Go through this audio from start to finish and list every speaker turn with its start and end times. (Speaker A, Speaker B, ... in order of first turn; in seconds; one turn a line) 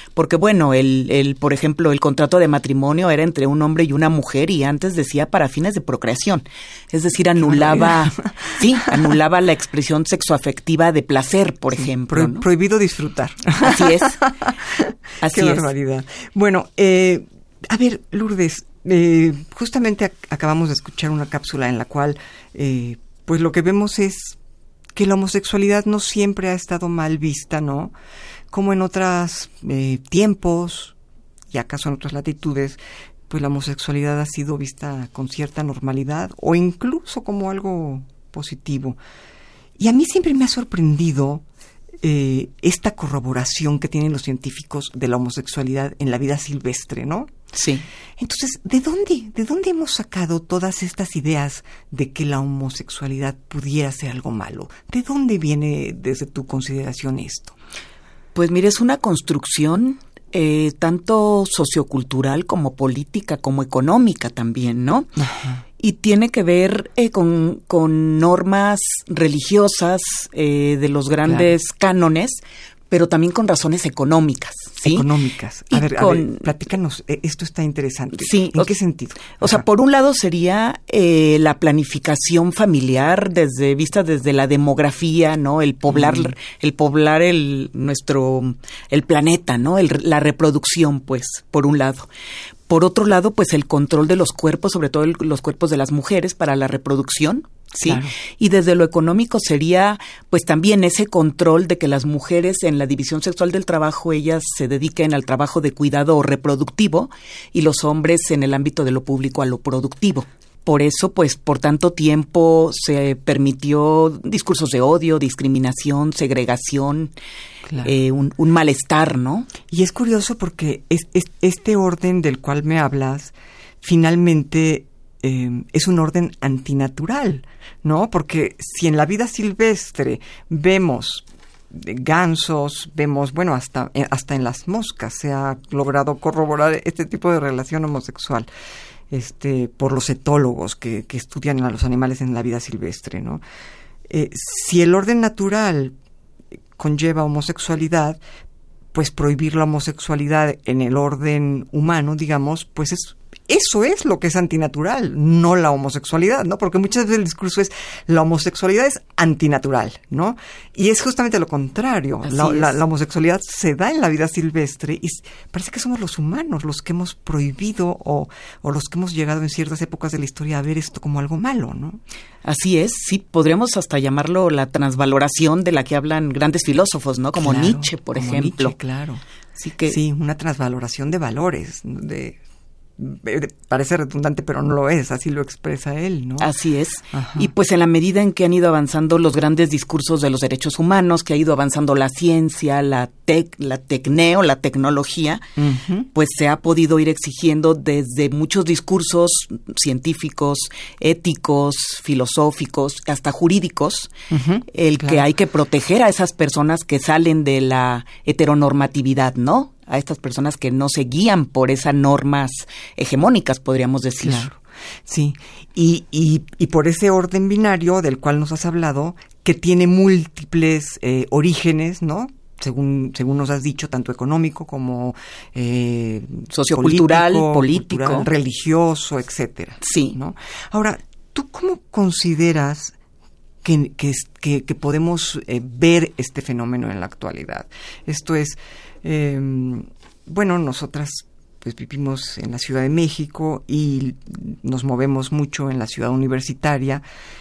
Speaker A: 0.2-12.5
Speaker B: 7.4-9.1
Speaker B: 11.8-24.4
Speaker A: 13.6-14.2
Speaker A: 15.2-15.7
Speaker B: 24.9-27.9
Speaker B: 28.5-30.9
Speaker B: 31.5-32.8
Speaker B: 33.3-39.0
Speaker B: 39.8-41.4
Speaker B: 42.0-47.3
Speaker A: 47.5-47.9
Speaker B: 48.2-57.5
Speaker A: 58.4-65.1
Speaker B: 65.2-65.6
Speaker A: 65.8-72.4
Speaker B: 71.2-71.5
Speaker A: 72.9-75.1
Speaker B: 74.8-79.6
Speaker A: 75.7-76.5
Speaker A: 78.2-78.7
Speaker A: 79.3-92.1
Speaker B: 85.9-86.3
Speaker A: 92.7-117.1
Speaker B: 97.8-98.1
Speaker B: 117.7-117.9
Speaker A: 117.8-119.5
Speaker B: 119.7-138.5
Speaker B: 139.1-143.4
Speaker B: 144.1-145.9
Speaker B: 146.8-148.2
Speaker B: 148.9-172.0
Speaker A: 162.2-162.7
Speaker A: 172.4-178.8
Speaker B: 177.3-179.2
Speaker A: 179.6-180.0
Speaker B: 179.9-182.4
Speaker B: 183.0-186.5
Speaker A: 186.4-195.4
Speaker B: 187.1-187.5
Speaker B: 195.6-196.1
Speaker A: 196.2-204.1
Speaker B: 204.3-205.2
Speaker A: 204.7-214.5
Speaker B: 214.2-232.9
Speaker A: 226.5-228.3
Speaker A: 229.8-230.2
Speaker B: 233.6-247.0